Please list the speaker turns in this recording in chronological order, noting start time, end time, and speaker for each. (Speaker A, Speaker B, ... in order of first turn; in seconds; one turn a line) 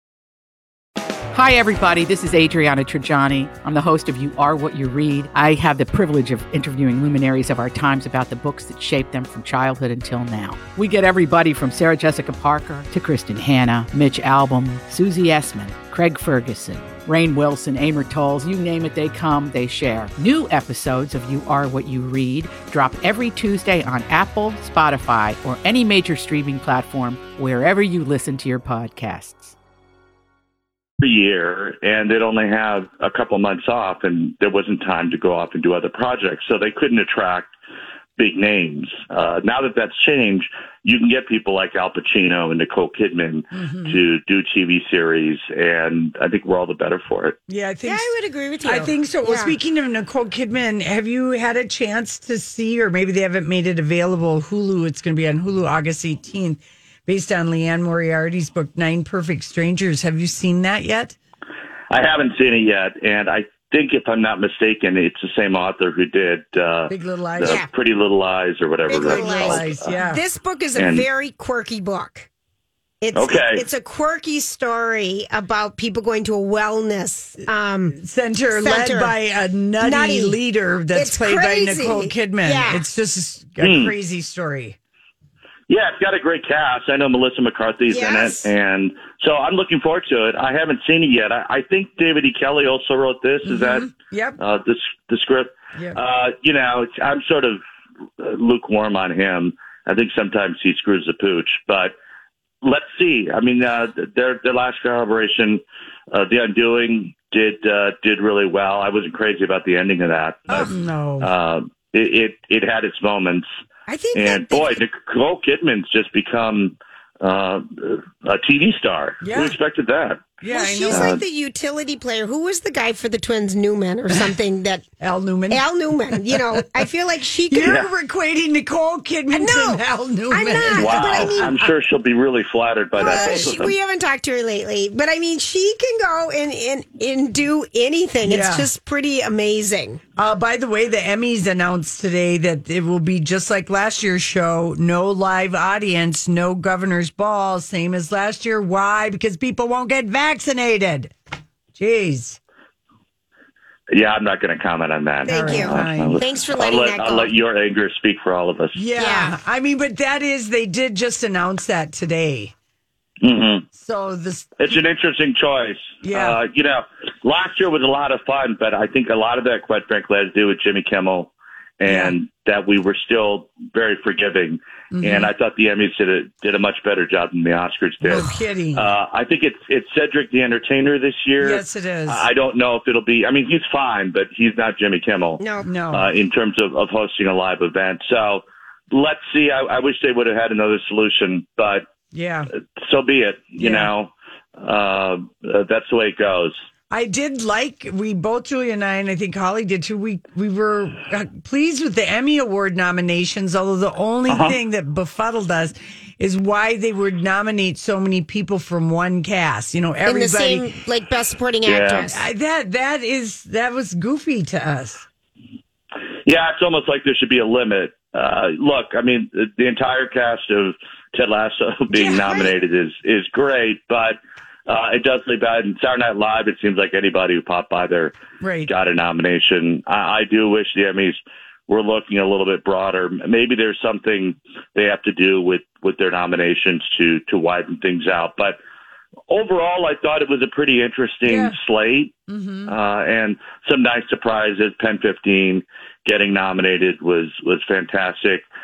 Speaker A: 1.3-29.6
Speaker B: 31.0-37.5
Speaker B: 38.2-47.4
Speaker C: 43.5-44.0
Speaker C: 47.5-48.1
Speaker D: 47.9-49.5
Speaker C: 48.6-61.2
Speaker B: 61.9-69.7
Speaker C: 66.9-67.6
Speaker D: 67.4-67.7
Speaker D: 68.9-72.3
Speaker C: 69.0-70.2
Speaker B: 70.8-71.1
Speaker D: 73.0-78.0
Speaker B: 73.2-73.7
Speaker C: 77.9-84.8
Speaker D: 78.5-79.1
Speaker D: 79.8-80.4
Speaker D: 80.9-82.8
Speaker B: 83.6-83.9
Speaker B: 85.7-97.6
Speaker D: 87.9-88.5
Speaker C: 93.4-94.4
Speaker B: 98.2-101.9
Speaker B: 102.6-113.5
Speaker C: 110.5-111.3
Speaker D: 113.9-114.8
Speaker B: 114.1-120.3
Speaker C: 119.2-119.6
Speaker C: 120.4-121.2
Speaker D: 120.5-124.8
Speaker B: 120.9-121.2
Speaker C: 125.0-125.6
Speaker D: 125.5-127.8
Speaker C: 126.2-126.6
Speaker C: 127.5-131.7
Speaker D: 129.3-131.5
Speaker B: 130.7-133.7
Speaker D: 133.0-140.0
Speaker C: 133.0-133.5
Speaker C: 138.2-138.7
Speaker C: 140.2-151.1
Speaker C: 151.8-152.4
Speaker B: 153.9-158.8
Speaker C: 155.2-156.2
Speaker D: 155.2-157.3
Speaker C: 158.8-162.5
Speaker D: 159.0-159.4
Speaker B: 163.2-163.7
Speaker C: 163.8-164.6
Speaker B: 164.6-185.4
Speaker C: 166.0-166.4
Speaker C: 171.9-172.2
Speaker C: 174.9-175.3
Speaker C: 178.0-178.9
Speaker C: 181.4-182.3
Speaker D: 185.4-185.7
Speaker C: 185.6-186.1
Speaker B: 185.9-191.9
Speaker C: 192.1-192.5
Speaker B: 192.8-196.6
Speaker C: 193.6-193.9
Speaker C: 196.9-210.7
Speaker B: 204.3-204.6
Speaker D: 210.1-212.2
Speaker B: 211.7-212.1
Speaker C: 212.1-215.1
Speaker B: 216.3-228.1
Speaker C: 221.9-222.5
Speaker C: 228.4-228.7
Speaker B: 228.7-238.6
Speaker B: 239.3-242.2
Speaker C: 241.2-241.6
Speaker C: 242.3-242.7
Speaker B: 242.7-248.4